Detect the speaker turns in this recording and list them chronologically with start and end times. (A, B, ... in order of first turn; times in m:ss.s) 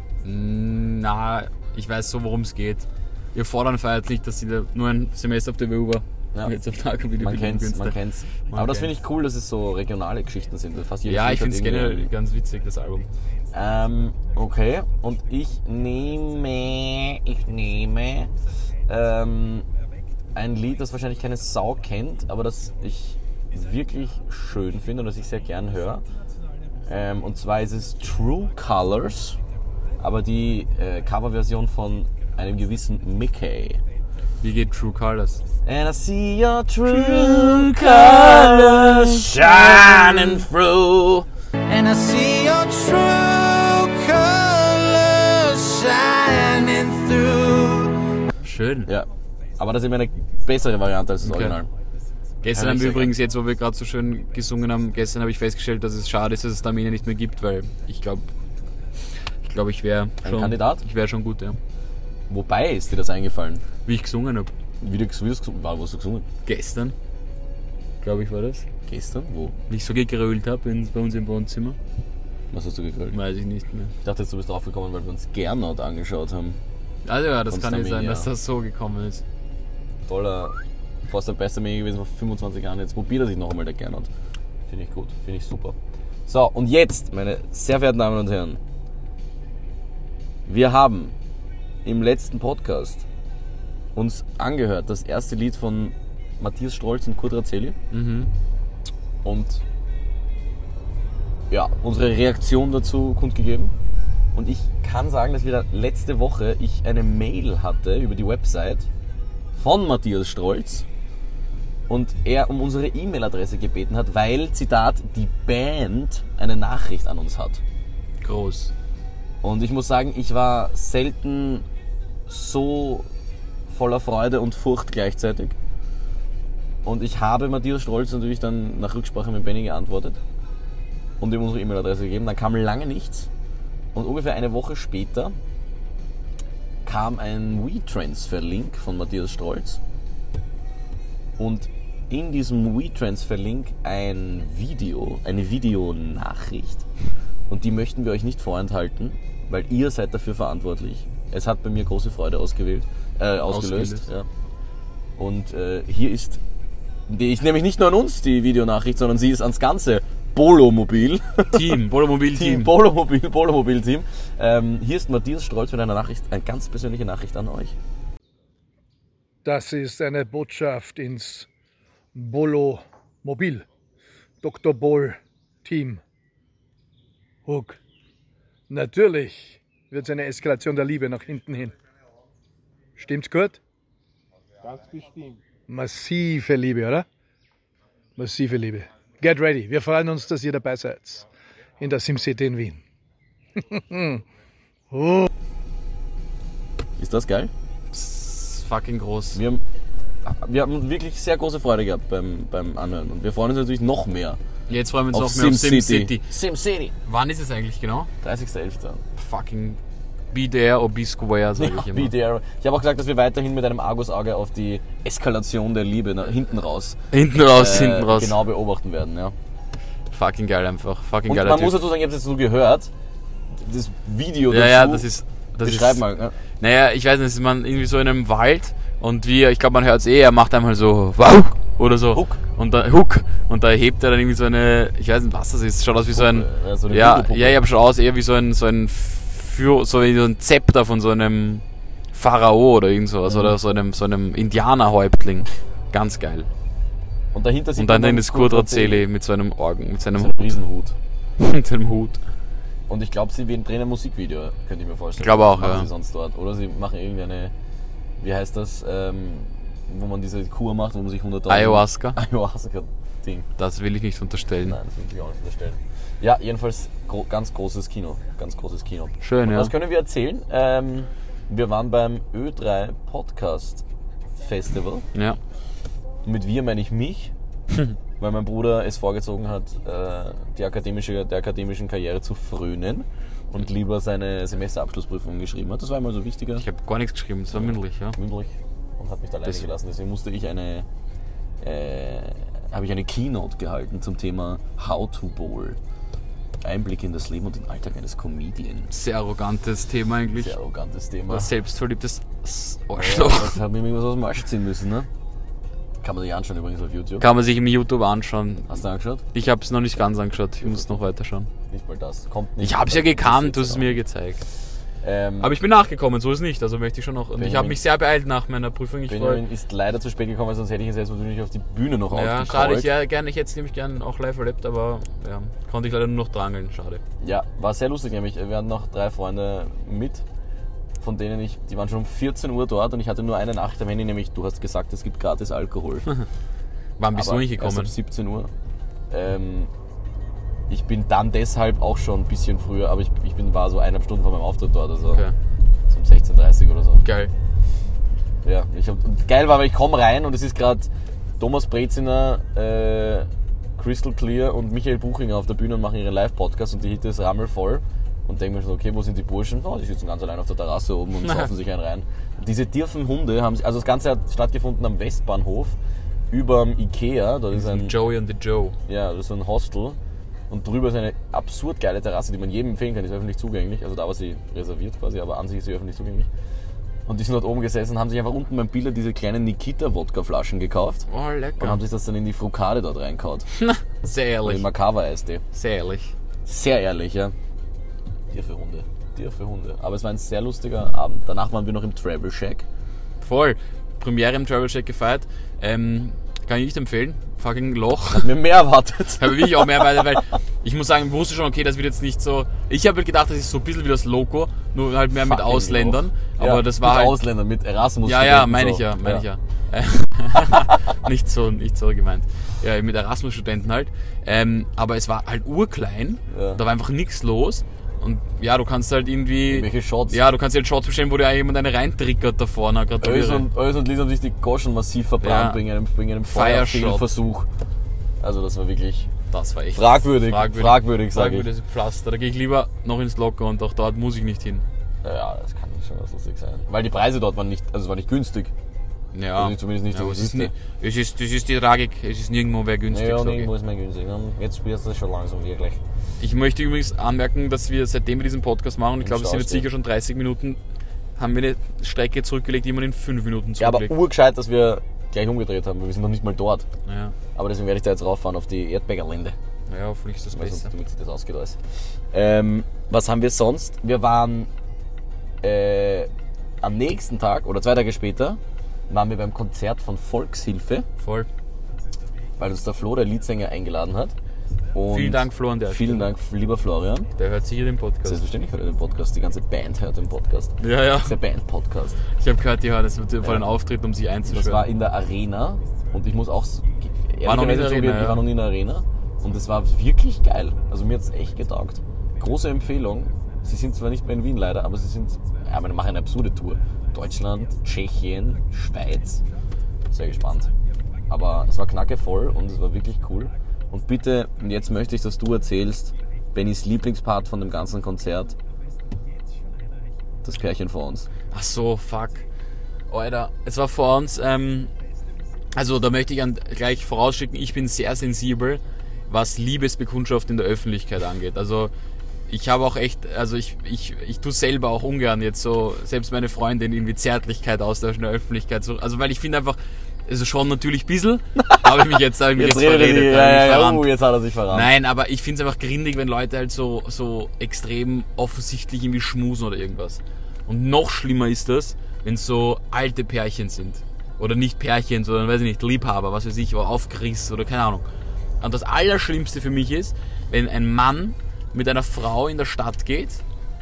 0:00.2-0:08.9 A
0:07.2-0:12.1 B
0:11.0-0:13.1 A
0:13.5-0:18.3 B
0:18.9-0:19.6 B
0:20.3-0:26.0 B
0:26.9-0:29.4 B
0:30.0-0:33.8 B
0:34.4-0:35.4 A
0:35.6-0:41.3 B
0:36.8-0:40.4 A
0:41.7-0:48.0 C
0:48.4-0:48.9 A
0:48.8-0:51.7 B
0:51.2-0:51.6 A
0:52.4-0:58.3 A
0:52.5-0:53.1 B
0:59.4-1:01.6 A
1:00.2-1:00.8 B
1:02.3-1:03.6 B
1:03.8-1:04.5 A
1:04.8-1:06.3 B
1:06.4-1:06.9 A
1:08.0-1:08.7 A
1:08.8-1:09.6 B
1:09.7-1:11.8 A
1:12.5-1:13.2 B
1:13.1-1:13.9 A
1:14.0-1:16.6 B
1:17.0-1:19.2 A
1:17.5-1:18.3 B
1:20.1-1:24.1 B
1:24.7-1:25.8 B
1:26.3-1:28.6 B
1:30.5-1:31.1 B
1:31.8-1:33.0 B
1:34.0-1:37.8 B
1:37.9-1:38.3 A
1:39.2-1:39.6 B
1:41.5-1:43.7 B
1:44.3-1:48.9 B
1:49.6-1:50.8 B
1:51.9-1:57.6 B
1:58.2-1:58.7 A
1:59.4-2:01.6 B
2:02.3-2:03.1 B
2:03.7-2:05.6 B
2:06.8-2:10.2 B
2:11.2-2:13.3 B
2:13.9-2:15.4 B
2:16.8-2:19.8 B
2:21.4-2:26.8 B
2:27.5-2:34.3 B
2:33.5-2:34.1 A
2:35.2-2:36.4 B
2:37.1-2:47.7 B
2:41.5-2:42.7 A
2:49.4-2:51.5 D
2:52.1-2:53.6 D
2:54.4-2:56.0 D
2:57.4-2:57.8 D
2:58.7-3:01.7 D
3:03.0-3:03.6 D
3:05.7-3:07.0 D
3:08.2-3:11.2 D
3:11.8-3:12.8 D
3:13.6-3:14.2 D
3:14.9-3:15.3 D
3:17.0-3:17.5 B
3:17.9-3:19.4 A
3:19.3-3:19.6 B
3:20.2-3:24.4 B
3:24.7-3:26.3 A
3:25.1-3:26.9 B
3:27.0-3:28.1 A
3:28.2-3:29.0 B
3:29.2-3:29.8 A
3:30.3-3:32.1 A
3:31.6-3:39.3 B
3:37.1-3:38.4 A
3:40.1-3:41.8 A
3:41.3-3:42.9 B
3:43.5-3:45.1 B
3:44.5-3:46.0 A
3:45.6-3:46.4 B
3:46.6-4:06.5 A
3:52.1-3:52.4 B
3:56.1-3:57.6 B
4:03.3-4:03.5 B
4:07.3-4:09.1 B
4:07.8-4:10.6 A
4:10.1-4:11.0 B
4:11.4-4:12.2 A
4:12.9-4:17.5 B
4:15.2-4:15.9 A
4:18.2-4:23.5 B
4:21.5-4:22.2 A
4:23.6-4:24.8 A
4:24.6-4:33.8 B
4:29.2-4:29.7 A
4:34.4-4:35.0 B
4:35.1-4:35.4 A
4:36.2-4:37.3 B
4:38.2-4:46.6 B
4:46.6-4:48.2 A
4:47.5-4:50.8 B
4:51.6-4:55.8 B
4:56.6-4:58.9 B
4:58.9-5:00.6 A
5:00.4-5:01.5 B
5:01.3-5:03.6 A
5:02.9-5:05.1 B
5:06.0-5:07.3 B
5:07.2-5:08.8 A
5:08.7-5:09.2 B
5:09.3-5:11.5 A
5:10.6-5:10.9 B
5:11.7-5:14.0 B
5:12.6-5:14.4 A
5:15.0-5:15.6 B
5:15.4-5:19.4 A
5:17.4-5:17.8 B
5:19.1-5:22.9 B
5:22.1-5:27.0 A
5:27.2-5:30.2 B
5:31.0-5:36.1 B
5:37.0-5:37.9 A
5:37.1-5:38.5 B
5:39.1-5:39.7 B
5:40.7-5:45.2 B
5:45.1-5:45.3 A
5:45.9-5:47.0 B
5:47.0-5:47.3 A
5:48.4-5:50.9 B
5:51.4-6:05.8 B
6:01.2-6:01.5 A
6:06.3-6:08.0 B
6:07.5-6:08.8 A
6:08.9-6:10.0 B
6:10.5-6:16.3 B
6:17.1-6:21.1 B
6:21.1-6:21.8 A
6:21.6-6:23.4 B
6:23.6-6:24.6 A
6:24.4-6:25.4 B
6:25.5-6:26.1 A
6:26.4-6:27.3 B
6:28.3-6:32.6 B
6:33.2-6:38.3 A
6:38.1-6:40.2 B
6:39.2-6:47.2 A
6:45.2-6:49.2 B
6:48.0-7:03.5 A
6:56.3-6:56.6 B
6:59.5-7:00.2 B
7:03.0-7:07.5 B
7:05.2-7:05.6 A
7:06.3-7:07.1 A
7:08.2-7:09.1 B
7:09.3-7:14.6 A
7:09.7-7:11.5 B
7:15.0-7:18.5 B
7:19.1-7:23.5 A
7:19.3-7:20.5 B
7:22.9-7:25.8 B
7:26.2-7:30.6 A
7:29.0-7:29.7 B
7:31.2-7:33.9 A
7:33.6-7:36.6 B
7:36.8-7:37.2 A
7:37.3-7:39.4 B
7:39.7-7:40.7 A
7:40.3-7:41.6 B
7:42.1-7:44.5 B
7:45.4-7:46.1 B
7:46.6-7:48.4 B
7:48.9-7:50.9 B
7:51.0-7:51.3 A
7:52.4-7:54.1 B
7:54.7-7:57.1 B
7:54.9-7:56.1 A
7:57.2-7:58.2 A
7:58.0-8:02.0 B
8:00.6-8:01.2 A
8:02.1-8:04.7 A
8:04.3-8:19.2 B
8:07.2-8:08.3 A
8:19.9-8:20.5 B
8:21.1-8:28.3 B
8:30.2-8:31.1 B
8:31.3-8:32.2 A
8:32.9-8:34.7 A
8:35.5-8:41.7 A
8:42.3-8:53.9 A
8:51.4-8:54.7 B
8:54.5-9:07.8 A
9:08.4-9:13.2 A